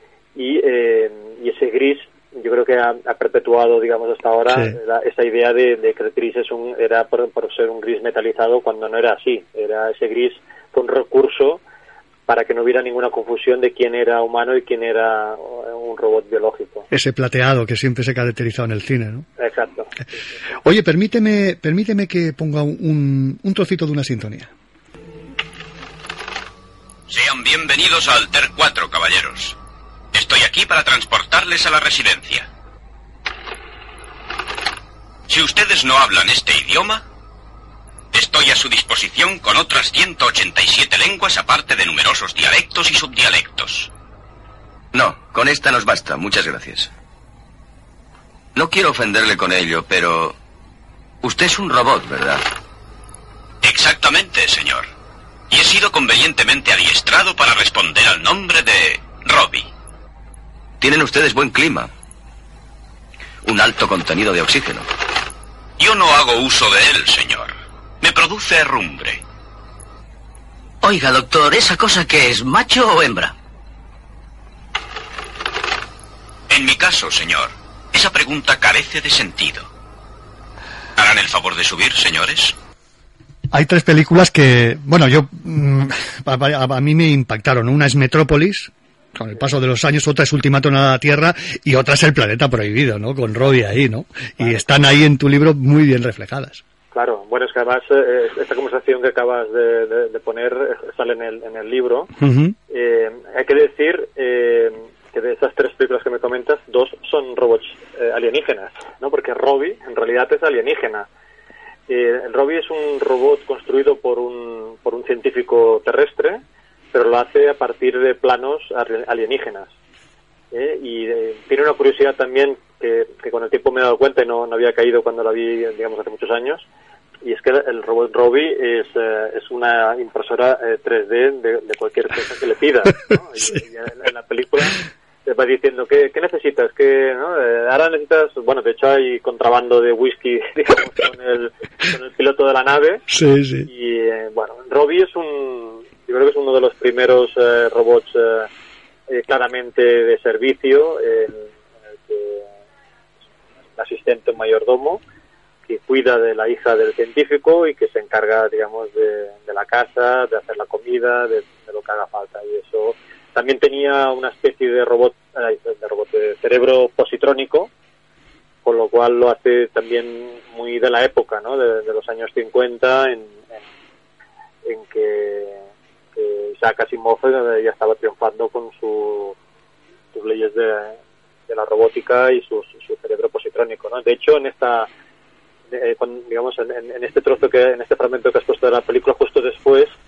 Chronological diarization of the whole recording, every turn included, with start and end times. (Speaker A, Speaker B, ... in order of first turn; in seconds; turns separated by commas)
Speaker A: 0.3-11.6, Speaker B: 4.5-4.8, Speaker A: 12.3-16.9, Speaker B: 16.9-19.2, Speaker A: 19.4-19.9, Speaker B: 20.6-24.5, Speaker C: 27.1-29.6, Speaker C: 30.1-32.5, Speaker C: 35.3-37.0, Speaker C: 38.1-43.9, Speaker D: 44.9-46.9, Speaker D: 48.5-50.4, Speaker D: 51.2-52.4, Speaker C: 53.6-54.9, Speaker C: 55.5-59.7, Speaker D: 60.8-61.9, Speaker D: 63.4-64.9, Speaker C: 65.8-69.2, Speaker E: 70.8-73.3, Speaker C: 76.5-79.7, Speaker C: 81.0-82.5, Speaker B: 83.5-96.6, Speaker A: 96.9-102.1, Speaker B: 102.2-102.6, Speaker A: 102.7-111.1, Speaker A: 111.9-116.4, Speaker A: 116.9-119.7, Speaker A: 120.5-126.7, Speaker A: 127.2-143.1, Speaker B: 143.1-143.7, Speaker A: 143.7-148.5, Speaker A: 149.1-151.5, Speaker A: 152.1-152.5, Speaker A: 153.8-155.0, Speaker A: 155.7-167.7, Speaker A: 168.7-173.6, Speaker A: 174.7-175.6, Speaker A: 176.2-179.4, Speaker A: 180.1-181.0, Speaker A: 181.5-184.9, Speaker A: 185.7-189.9